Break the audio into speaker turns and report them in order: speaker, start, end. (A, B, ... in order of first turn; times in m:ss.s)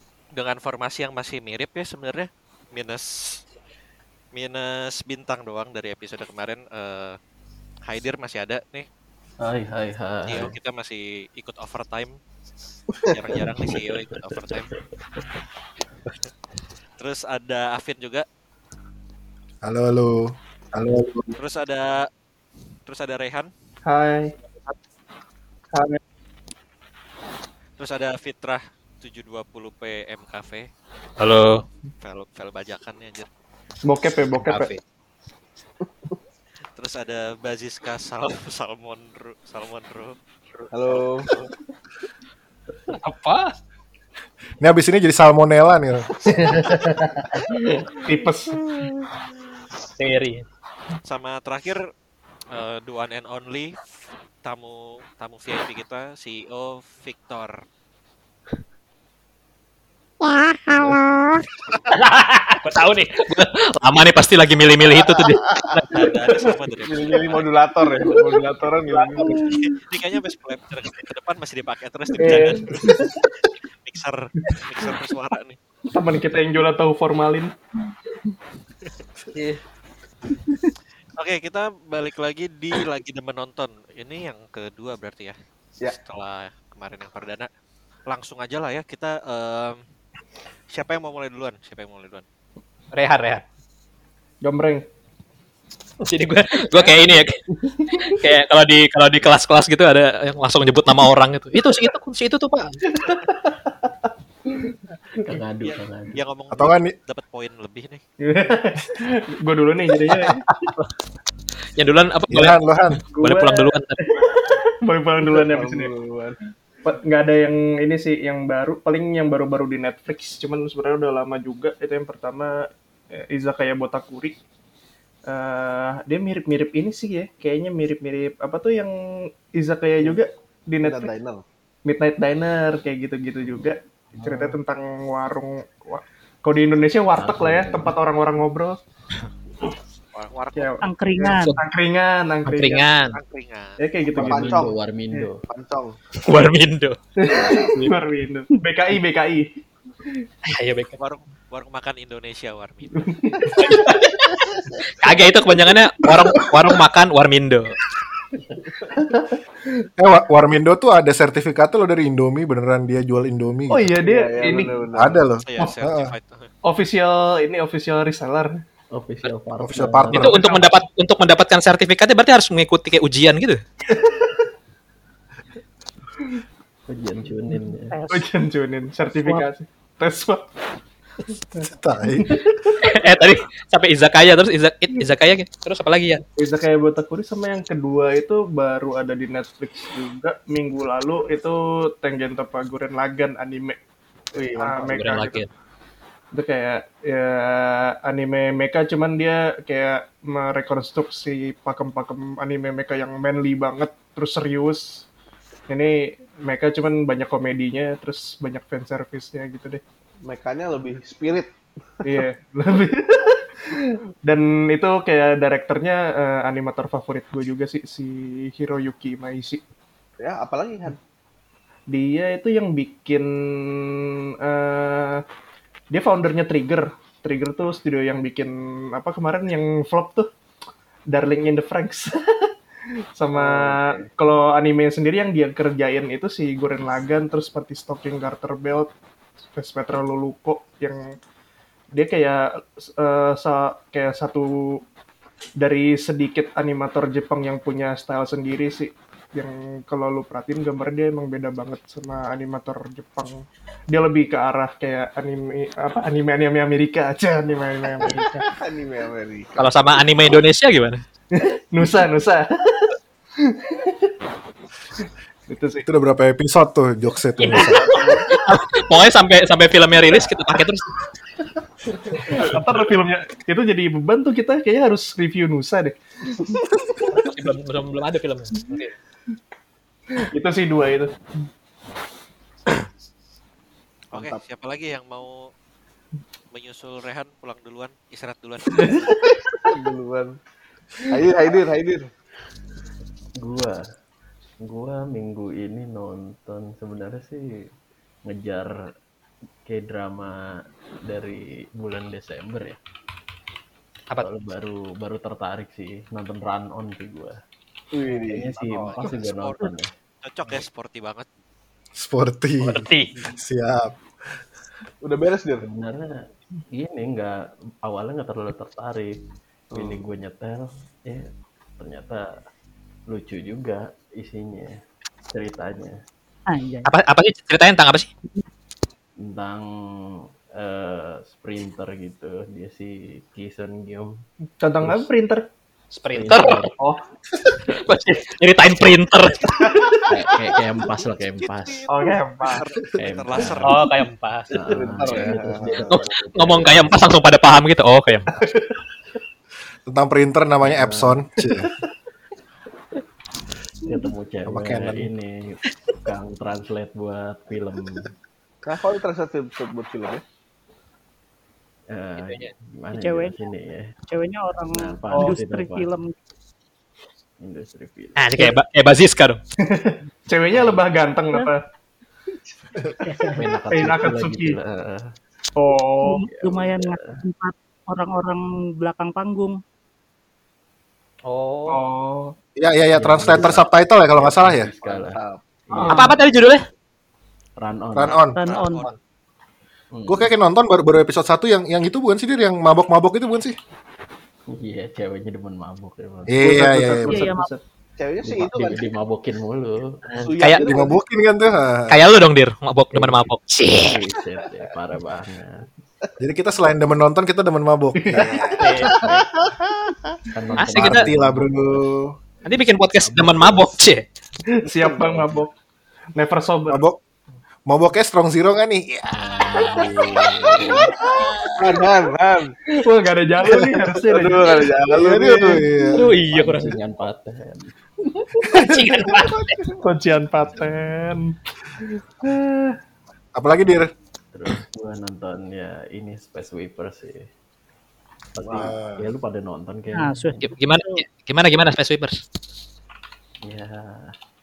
0:00.3-0:03.4 A
0:04.3-0:07.2 A
0:07.9-0:08.9 A
0:09.4-0:10.5 B
0:10.3-0:12.2 A
0:13.1-0:14.7 A
0:13.4-0:15.2 B
0:17.0-0:18.2 A
0:19.6-0:21.4 C
0:21.3-0:22.1 A
0:22.8-0:23.5 A
0:23.8-0:24.3 D
0:25.7-0:26.0 D
0:27.8-0:30.7 A
0:31.2-0:31.6 E
0:32.0-0:33.3 A
0:33.8-0:34.7 D
0:34.4-0:34.8 E
0:36.7-0:41.4 A
0:40.7-0:41.5 F
0:42.9-0:43.5 E
0:44.6-0:46.2 C
0:48.0-0:48.6 D
0:50.0-0:50.4 E
0:51.0-0:51.8 A
0:52.5-0:53.8 A
0:54.4-0:57.6 A
1:01.9-1:06.1 E
1:05.1-1:06.0 F
1:05.9-1:07.4 A
1:06.8-1:09.5 F
1:08.9-1:13.1 A
1:09.2-1:09.6 D
1:12.2-1:13.1 D
1:13.8-1:15.6 A
1:15.9-1:17.5 D
1:21.2-1:27.5 A
1:28.1-1:29.8 A
1:30.7-1:32.2 A
1:32.9-1:33.4 E
1:34.4-1:34.8 D
1:36.0-1:37.4 E
1:36.7-1:37.1 A
1:37.7-1:38.1 D
1:37.9-1:42.8 E
1:45.2-1:46.2 B
1:45.6-1:48.0 A
1:46.5-1:46.9 C
1:48.2-1:50.4 D
1:50.1-1:50.9 E
1:51.8-1:52.6 E
1:52.3-1:53.0 C
1:53.1-1:55.9 D
1:53.2-1:54.0 E
1:55.2-1:56.4 F
1:56.8-2:04.4 D
2:05.3-2:08.9 D
2:09.5-2:11.1 D
2:10.8-2:11.4 F
2:11.8-2:18.8 D
2:14.2-2:14.5 B
2:17.2-2:17.9 B
2:20.1-2:20.8 A
2:20.5-2:22.9 D
2:20.8-2:21.5 G
2:22.4-2:23.2 E
2:23.1-2:23.8 A
2:23.8-2:25.3 D
2:24.1-2:24.7 F
2:24.1-2:25.4 B
2:25.4-2:26.0 F
2:26.2-2:27.9 E
2:27.2-2:29.5 D
2:30.4-2:31.0 E
2:31.0-2:33.9 A
2:33.0-2:34.0 D
2:33.6-2:37.7 E
2:36.0-2:36.8 D
2:40.0-2:43.9 C
2:43.7-2:44.9 D
2:44.0-2:45.2 F
2:45.0-2:46.1 C
2:45.4-2:46.5 A
2:46.6-2:48.6 D
2:48.9-2:50.4 B
2:49.6-2:50.4 C
2:50.1-2:53.6 E
2:50.2-2:50.8 D
2:53.9-2:54.4 D
2:56.9-2:57.9 B
2:57.9-2:58.3 G
2:58.1-3:00.5 D
3:01.5-3:03.2 D
3:01.7-3:02.3 C
3:02.8-3:06.2 E
3:06.4-3:13.8 D
3:14.4-3:15.4 D
3:14.7-3:15.5 E
3:16.3-3:25.0 D
3:25.7-3:29.8 D
3:30.2-3:31.5 F
3:32.0-3:39.6 D
3:40.2-3:41.0 F
3:41.9-3:45.2 D
3:45.9-3:50.3 D
3:51.1-3:52.5 D
3:53.2-3:58.9 D
3:53.4-3:53.8 F
3:59.5-4:01.2 D
4:01.9-4:04.8 D
4:05.6-4:18.4 D
4:18.4-4:20.4 F
4:19.6-4:21.0 E
4:21.3-4:22.8 D
4:23.5-4:23.8 D
4:25.5-4:25.9 D
4:25.8-4:27.9 C
4:27.4-4:30.9 E
4:27.6-4:28.3 D
4:32.1-4:36.0 D
4:37.1-4:38.9 E
4:40.2-4:41.1 D
4:44.1-4:44.4 F
4:44.1-4:45.5 A
4:46.5-4:49.2 A
4:48.9-4:49.3 D
4:49.7-4:50.4 F
4:51.1-4:52.1 F
4:53.4-4:53.8 B
4:54.6-4:57.4 B
4:58.3-4:58.7 B
4:59.7-5:00.4 B
5:01.0-5:02.8 B
5:04.2-5:07.4 B
5:07.9-5:08.5 F
5:08.0-5:09.9 B
5:08.6-5:11.2 A
5:12.0-5:13.9 C
5:12.6-5:13.1 E
5:15.0-5:15.6 F
5:15.6-5:21.3 B
5:19.7-5:20.0 F
5:21.8-5:22.4 B
5:23.1-5:24.7 B
5:25.3-5:26.0 B
5:26.5-5:26.9 G
5:26.8-5:28.1 E
5:29.2-5:34.2 B
5:34.6-5:35.5 D
5:34.8-5:35.1 B
5:35.9-5:36.7 E
5:36.1-5:36.7 B
5:37.6-5:39.5 E
5:39.6-5:40.0 D
5:40.0-5:41.8 B
5:40.8-5:43.9 A
5:41.9-5:42.6 D
5:42.9-5:43.8 B
5:43.6-5:44.5 E
5:44.5-5:47.1 B
5:44.6-5:46.0 F
5:45.9-5:48.3 E
5:49.8-5:51.7 C
5:50.6-5:51.2 B
5:53.8-5:58.1 B
5:54.4-5:55.1 C
5:58.6-6:00.2 F
6:01.9-6:03.9 B
6:02.2-6:02.5 E
6:02.9-6:03.4 G
6:04.1-6:06.1 G
6:04.7-6:05.9 B
6:05.1-6:05.4 D
6:07.4-6:08.3 B
6:08.2-6:09.4 E
6:09.6-6:11.6 D
6:13.0-6:13.4 G
6:13.3-6:15.1 B
6:13.7-6:14.6 D
6:15.6-6:16.2 D
6:16.0-6:19.6 G
6:16.2-6:17.2 B
6:21.3-6:21.8 E
6:21.7-6:22.3 D
6:22.6-6:24.7 C
6:22.9-6:26.0 B
6:24.8-6:25.9 F
6:25.8-6:26.2 G
6:25.9-6:26.6 E
6:27.6-6:28.2 B
6:27.9-6:28.4 C
6:28.4-6:28.8 G
6:28.4-6:29.0 A
6:28.7-6:28.9 E
6:29.9-6:30.3 B
6:30.1-6:33.6 C
6:34.5-6:36.5 B
6:36.3-6:37.2 C
6:36.4-6:37.6 D
6:37.1-6:37.5 G
6:38.0-6:38.9 F
6:38.2-6:40.3 B
6:40.2-6:41.0 F
6:40.4-6:40.7 E
6:40.6-6:42.0 C
6:41.9-6:44.0 E
6:42.9-6:45.7 B
6:46.2-6:48.8 C
6:48.0-6:48.5 D
6:48.6-6:48.9 E
6:48.7-6:50.2 F
6:48.8-6:49.3 B
6:50.3-6:51.9 B
6:50.6-6:51.1 E
6:50.7-6:52.1 C
6:52.4-6:54.0 E
6:53.0-6:53.8 B
6:54.5-6:55.5 D
6:54.9-6:55.4 B
6:56.2-6:56.8 D
6:56.7-6:57.0 C
6:57.7-6:59.4 C
6:59.1-7:00.9 B
7:01.1-7:01.6 E
7:01.6-7:02.6 F
7:02.7-7:04.7 D
7:03.5-7:05.7 F
7:04.9-7:06.2 C
7:05.9-7:06.8 E
7:06.2-7:07.7 B
7:08.5-7:09.5 C
7:08.5-7:09.6 E
7:09.8-7:11.3 D
7:12.2-7:12.8 D
7:13.4-7:13.9 C
7:14.3-7:17.3 B
7:18.3-7:20.5 B
7:18.4-7:18.7 F
7:18.5-7:19.0 C
7:19.9-7:21.0 G
7:20.4-7:22.2 E
7:23.4-7:24.1 B